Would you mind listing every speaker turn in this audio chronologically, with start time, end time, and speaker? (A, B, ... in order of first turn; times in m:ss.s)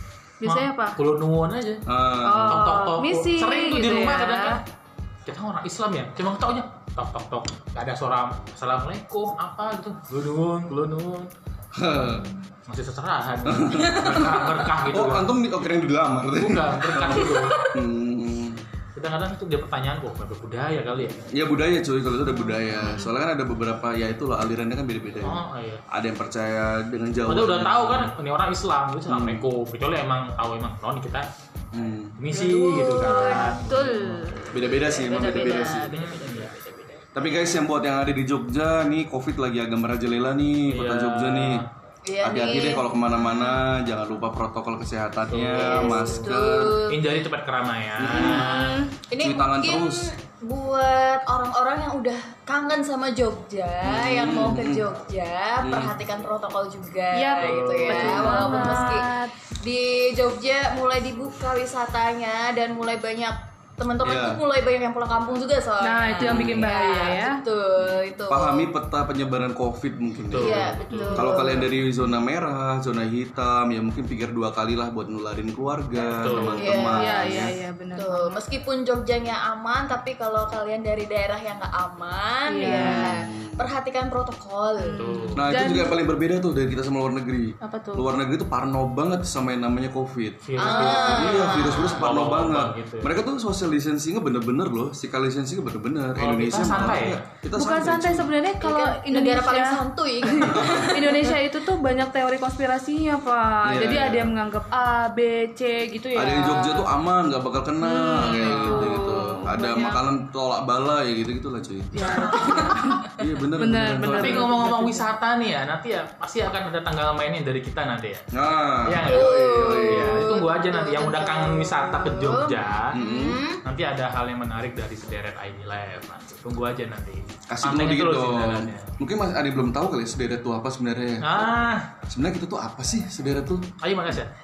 0:00.4-0:01.0 A
0:00.4-0:01.8 B
0:01.9-0:02.6 C
0:02.2-0:04.6 A
0:02.5-0:04.6 B
0:05.2-0:11.3 B
0:11.7-0:12.3 C
0:12.6-0:15.4 B
0:13.4-0:18.6 C
0:13.8-0:14.5 D
0:16.3-0:17.6 B
0:17.2-0:17.7 D
0:18.9-0:21.3 B
0:21.3-0:28.1 C
0:25.2-0:25.8 B
0:27.2-0:31.3 B
0:29.1-0:29.4 C
0:31.7-0:32.2 C
0:32.2-0:34.4 B
0:32.3-0:33.6 D
0:32.4-0:35.9 A
0:34.5-0:35.9 C
0:34.6-0:37.4 D
0:35.8-0:36.5 B
0:37.1-0:41.6 C
0:40.7-0:41.7 B
0:42.0-0:42.9 D
0:42.2-0:46.8 C
0:45.3-0:48.8 B
0:45.5-0:47.2 D
0:48.0-0:50.1 C
0:48.1-1:08.7 D
0:48.2-0:48.9 A
0:53.8-0:54.9 C
0:55.6-0:56.0 C
0:57.1-0:59.3 A
0:57.4-0:58.9 B
1:04.0-1:04.4 C
1:05.8-1:07.4 A
1:06.2-1:06.7 C
1:08.3-1:17.5 C
1:10.3-1:11.4 B
1:10.4-1:11.7 D
1:16.1-1:16.9 B
1:16.6-1:25.1 D
1:16.8-1:18.3 A
1:22.5-1:23.1 A
1:22.6-1:23.6 C
1:24.8-1:26.0 A
1:24.9-1:25.4 B
1:25.4-1:38.3 C
1:27.6-1:28.1 A
1:30.4-1:33.1 B
1:30.6-1:32.0 D
1:36.2-1:37.2 B
1:37.5-1:46.9 A
1:38.6-1:41.4 D
1:40.4-1:41.1 C
1:43.6-1:44.4 C
1:46.1-1:52.4 C
1:47.8-1:50.0 A
1:48.4-1:49.0 B
1:51.9-1:55.0 A
1:52.2-1:53.0 D
1:53.2-1:54.6 C
1:54.1-1:58.2 B
1:58.3-2:00.3 C
1:58.8-2:03.0 B
1:59.0-2:03.6 D
2:02.9-2:03.4 C
2:03.6-2:08.9 B
2:07.5-2:13.7 C
2:11.2-2:11.9 B
2:13.8-2:14.3 B